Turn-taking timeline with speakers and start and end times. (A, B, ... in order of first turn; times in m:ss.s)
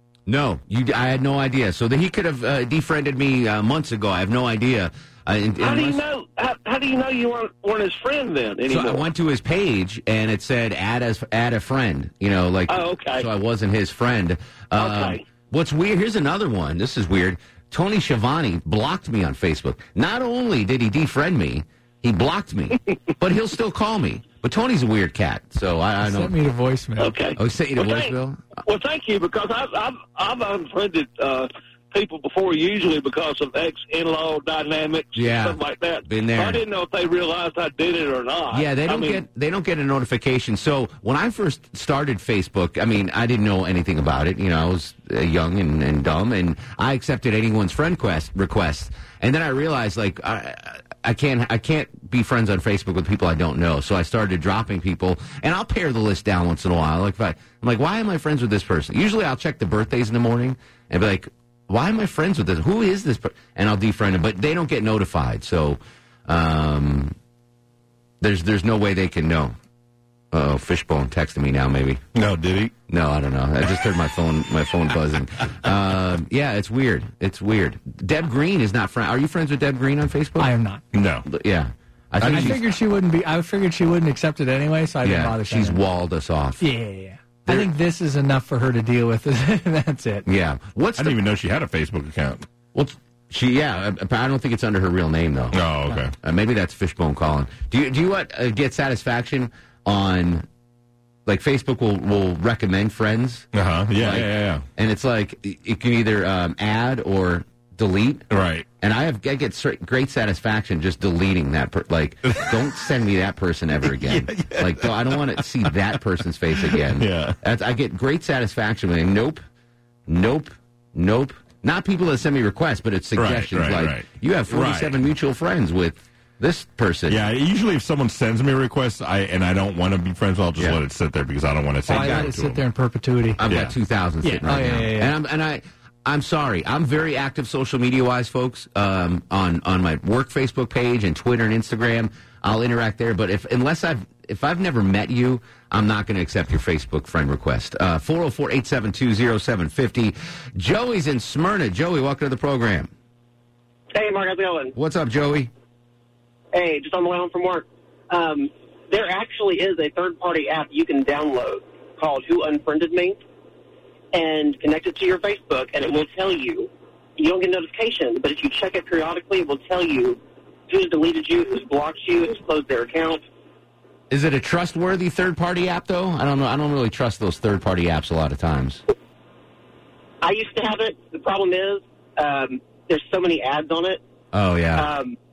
0:00.3-0:06.0 A
0:05.6-0:09.0 B
0:08.7-0:26.3 A
0:12.7-0:13.3 B
0:14.7-0:15.2 B
0:26.0-0:27.2 C
0:27.0-0:39.2 B
0:27.4-0:28.4 A
0:35.1-0:36.6 A
0:38.5-1:07.1 A
1:08.2-1:09.5 A
1:10.3-1:12.0 A
1:12.1-1:12.7 D
1:12.9-1:20.5 A
1:20.4-1:20.8 C
1:20.9-1:21.3 D
1:21.2-1:22.6 A
1:22.2-1:22.6 D
1:22.2-1:25.8 C
1:25.0-1:26.6 A
1:26.6-1:30.2 C
1:30.2-1:31.2 A
1:31.0-1:32.4 D
1:32.7-1:35.6 A
1:35.5-1:36.1 D
1:36.2-1:40.4 A
1:41.2-1:48.3 A
1:43.5-1:44.6 D
1:48.3-1:48.6 D
1:48.8-1:59.4 A
1:52.3-1:52.5 D
1:53.8-1:55.4 D
1:56.6-1:57.4 D
2:00.1-2:07.2 A
2:03.2-2:05.1 D
2:07.1-2:12.6 D
2:11.9-2:13.4 C
2:11.9-2:12.4 A
2:13.4-2:32.9 A
2:13.5-2:13.8 D
2:14.2-2:15.1 C
2:33.9-2:34.7 E
2:34.7-2:35.5 A
2:36.5-2:43.2 E
2:44.1-2:53.2 E
2:54.1-2:58.8 A
3:00.2-3:04.0 E
3:04.3-3:04.9 A
3:04.7-3:05.1 E